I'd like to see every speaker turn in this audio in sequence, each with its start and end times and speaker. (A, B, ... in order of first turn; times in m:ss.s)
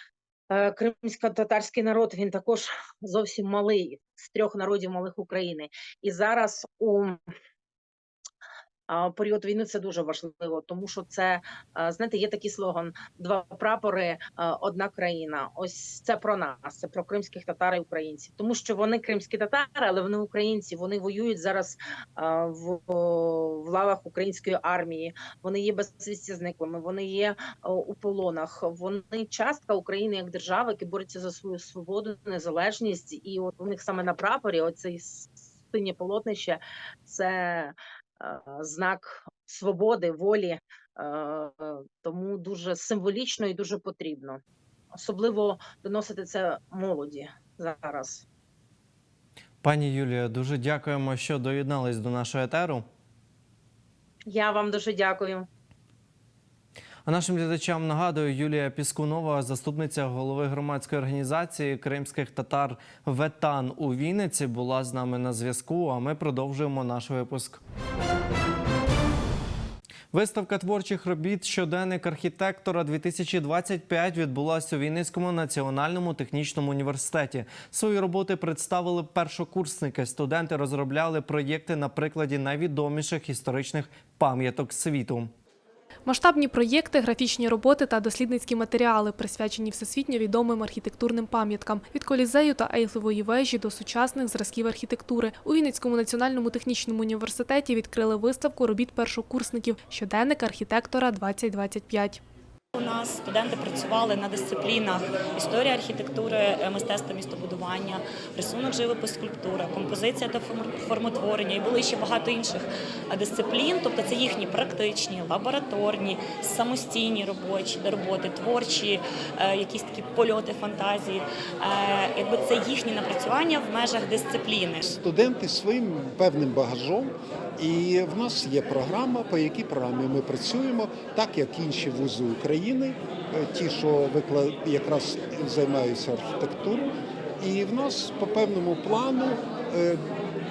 0:00.5-0:07.2 A
0:08.9-0:44.4 A
0:44.9-0:48.2 A
0:49.6-0:52.8 B
0:54.3-0:55.5 A
0:57.0-1:07.6 B
1:10.1-1:25.3 B
1:26.0-1:42.2 C
1:42.7-2:04.8 D
2:04.8-2:20.1 E